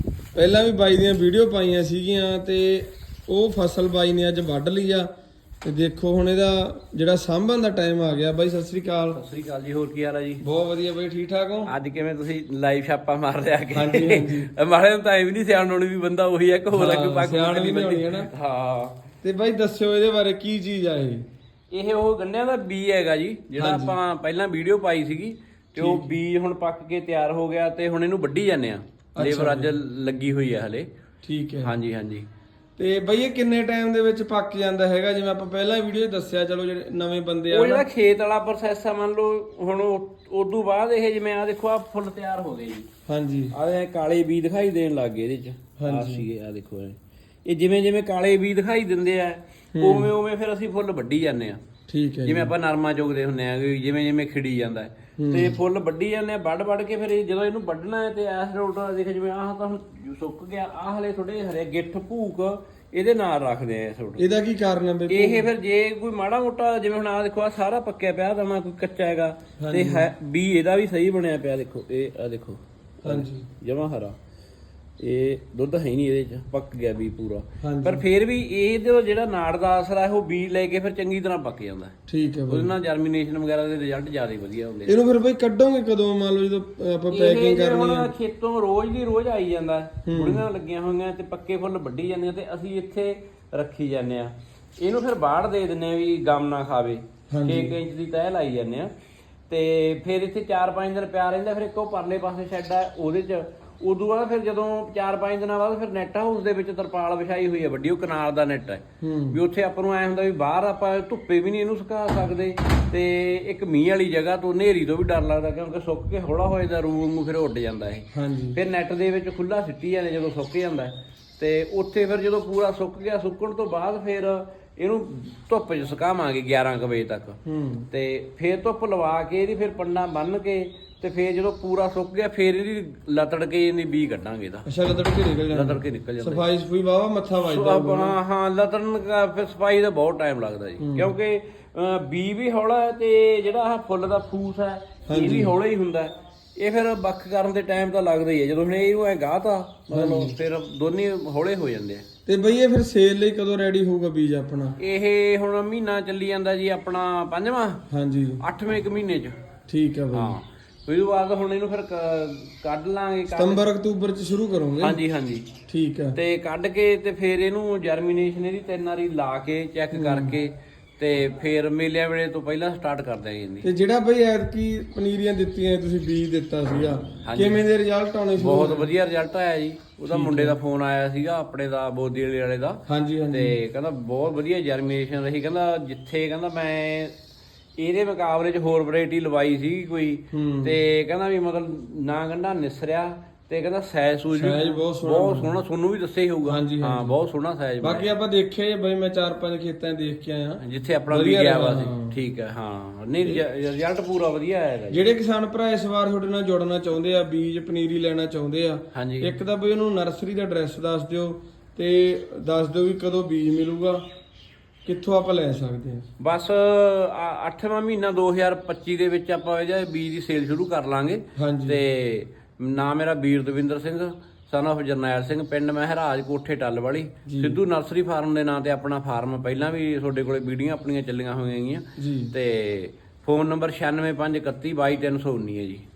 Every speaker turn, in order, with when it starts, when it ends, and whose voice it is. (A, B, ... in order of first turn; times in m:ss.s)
0:00.3-0:05.1 A
0:05.6-0:09.2 A
0:09.1-0:10.4 B
0:10.4-0:11.7 A
0:11.7-0:19.0 B
0:13.7-0:14.5 A
0:16.7-0:18.3 A
0:19.2-0:21.2 A
0:21.7-0:30.9 B
0:23.6-0:24.0 A
0:25.8-0:26.1 A
0:29.1-0:29.7 A
0:31.2-0:31.7 A
0:31.6-0:32.3 B
0:32.8-0:37.8 A
0:37.5-0:42.9 B
0:43.1-0:43.5 A
0:43.5-0:51.6 B
0:45.8-0:46.2 A
0:49.7-0:50.1 A
0:51.9-0:52.5 A
0:52.2-1:04.2 B
0:55.2-0:55.6 A
1:04.2-1:05.5 A
1:05.1-1:14.2 B
1:09.6-1:10.1 A
1:13.0-1:13.5 A
1:15.0-1:21.9 B
1:17.6-1:18.0 A
1:22.1-1:22.7 A
1:22.5-1:25.0 B
1:24.8-1:28.1 A
1:27.1-1:38.9 B
1:30.0-1:30.4 A
1:37.3-1:37.7 A
1:39.5-2:07.4 B
1:49.0-1:49.4 A
1:58.1-1:58.6 A
2:07.4-2:07.9 A
2:07.9-2:14.6 B
2:14.6-2:18.2 A
2:15.5-2:16.4 B
2:17.4-2:32.0 B
2:20.8-2:21.1 A
2:25.1-2:25.6 A
2:29.9-2:30.3 A
2:32.2-2:34.8 A
2:34.8-2:37.8 B
2:37.9-2:38.4 A
2:38.4-2:39.4 B
2:39.7-2:40.4 A
2:40.1-2:43.6 B
2:43.3-2:45.0 A
2:44.8-2:45.5 B
2:45.7-2:46.2 A
2:46.2-2:53.7 B
2:49.9-2:50.3 A
2:53.6-2:58.9 A
2:57.2-2:57.6 B
2:58.4-3:07.1 B
3:00.1-3:00.6 A
3:02.9-3:03.6 A
3:07.8-3:18.1 B
3:10.3-3:10.8 A
3:14.3-3:15.5 A
3:16.4-3:17.1 A
3:17.8-3:22.2 A
3:20.6-3:25.1 B
3:24.9-3:34.0 A
3:28.9-3:29.3 B
3:34.8-3:36.1 A
3:36.2-3:55.8 B
3:41.4-3:41.8 A
3:47.2-3:47.6 A
3:52.0-3:52.3 A